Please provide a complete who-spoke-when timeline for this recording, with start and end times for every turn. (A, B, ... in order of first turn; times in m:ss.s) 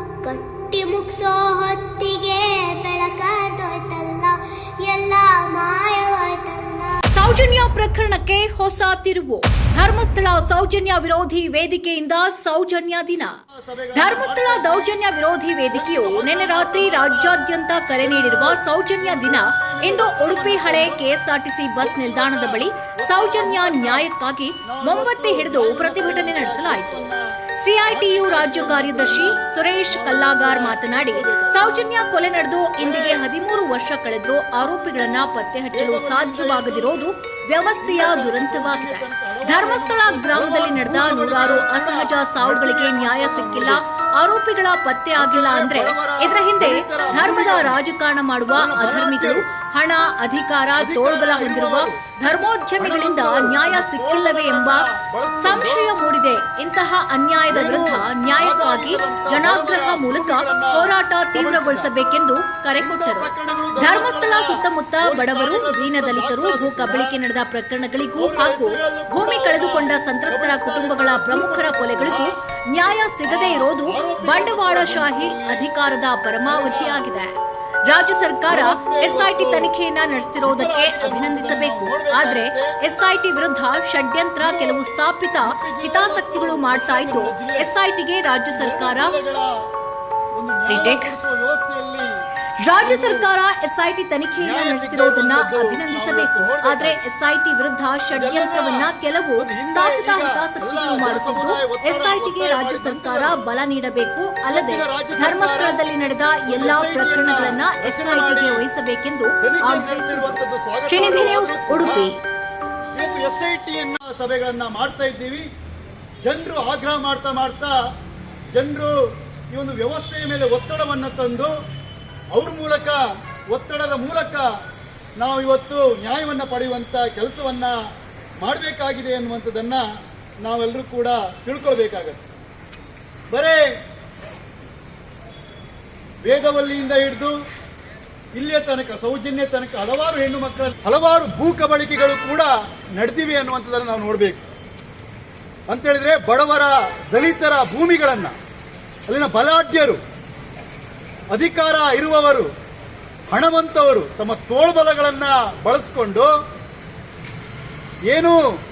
0:00.2-0:07.0 A
0:07.1-0:13.4 B
0:13.5-0:14.9 C
0:13.9-0:27.1 B
0:15.7-0:17.4 C
0:18.0-0:21.1 C
0:21.8-0:24.1 C
0:24.6-0:27.2 C
0:27.6-0:54.9 B
0:27.9-0:31.8 C
0:32.8-0:33.2 C
0:35.7-0:37.0 C
0:37.8-0:43.8 C
0:45.2-0:47.8 C
0:48.5-0:49.4 C
0:50.8-0:52.0 C
0:52.8-0:55.9 C
0:55.4-1:17.3 B
0:57.5-1:01.9 C
1:02.8-1:07.2 C
1:08.2-1:12.4 C
1:13.2-1:15.7 C
1:16.5-1:17.0 C
1:17.9-1:29.2 B
1:18.5-1:19.7 C
1:20.4-1:22.8 C
1:24.4-1:24.8 C
1:25.4-1:27.7 C
1:28.5-1:29.5 C
1:30.4-1:32.1 C
1:30.7-1:31.1 B
1:32.6-1:52.2 B
1:32.8-1:33.3 C
1:34.4-1:37.0 C
1:38.1-1:43.4 C
1:44.5-1:45.8 C
1:46.5-1:48.6 C
1:49.4-1:52.1 C
1:52.9-1:55.4 C
1:56.2-1:57.7 C
1:58.5-1:58.9 C
1:59.5-2:01.5 C
2:02.3-2:04.5 C
2:05.2-2:07.8 C
2:08.4-2:09.8 C
2:10.4-2:12.2 C
2:13.3-2:13.6 C
2:16.2-2:17.4 C
2:18.4-2:24.4 C
2:25.7-2:28.3 C
2:29.1-2:30.0 C
2:31.3-2:32.5 C
2:33.3-2:36.3 C
2:38.1-2:38.4 C